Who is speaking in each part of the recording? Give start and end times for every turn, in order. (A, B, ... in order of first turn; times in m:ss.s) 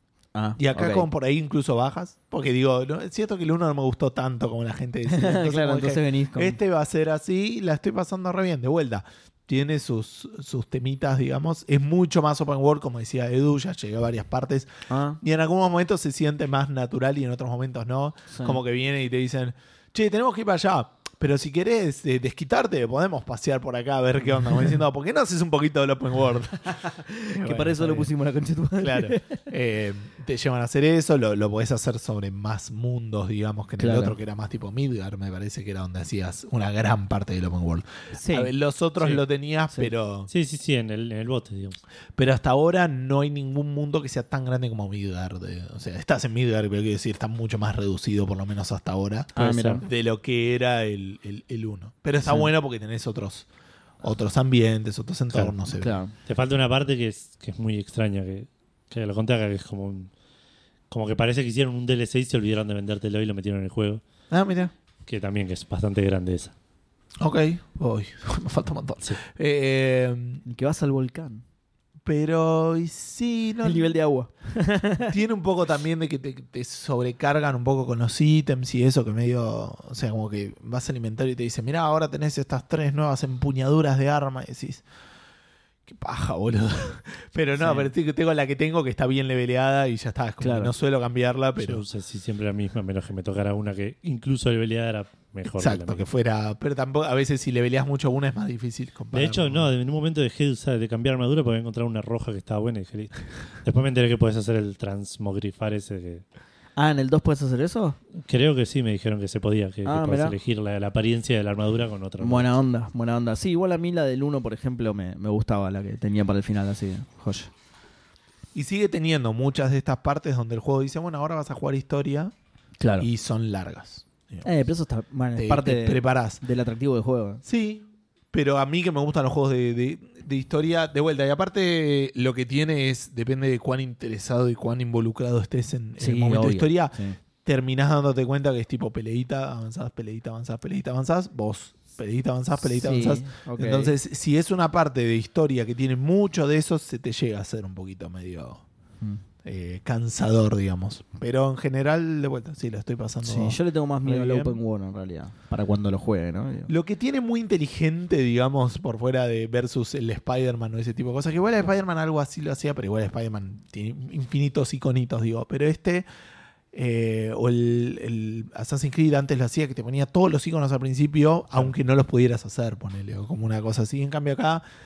0:00.3-0:01.1 A
0:00.6-0:28.1 B
0:05.1-0:06.6 A
0:14.9-0:15.2 A
0:18.3-0:18.6 A
0:26.8-0:29.5 A
0:28.8-0:40.3 B
0:33.8-0:34.2 A
0:38.1-0:38.5 A
0:40.3-0:41.8 C
0:42.2-0:53.5 B
0:49.3-0:49.8 A
0:49.4-0:49.8 C
0:54.0-0:56.0 B
0:55.8-0:56.1 A
0:56.2-1:00.1 C
1:00.9-1:04.0 C
1:04.3-1:04.7 B
1:05.1-1:06.5 C
1:07.2-1:10.4 B
1:10.4-1:11.4 A
1:12.0-1:13.9 B
1:13.6-1:15.1 A
1:15.1-1:24.8 B
1:25.8-1:31.8 B
1:27.6-1:27.9 A
1:30.4-1:30.7 A
1:31.6-1:36.0 C
1:35.5-1:39.7 B
1:39.1-1:46.2 C
1:46.8-1:48.0 A
1:48.2-1:52.5 C
1:49.8-1:50.4 A
1:52.2-1:57.5 A
1:58.5-2:02.3 B
2:02.8-2:03.1 A
2:03.0-2:04.4 B
2:04.4-2:07.4 A
2:05.4-2:06.4 B
2:07.4-2:28.6 B
2:16.0-2:17.2 A
2:22.6-2:23.9 A
2:29.4-2:34.6 B
2:33.2-2:36.7 A
2:36.7-2:46.0 B
2:46.7-2:54.6 B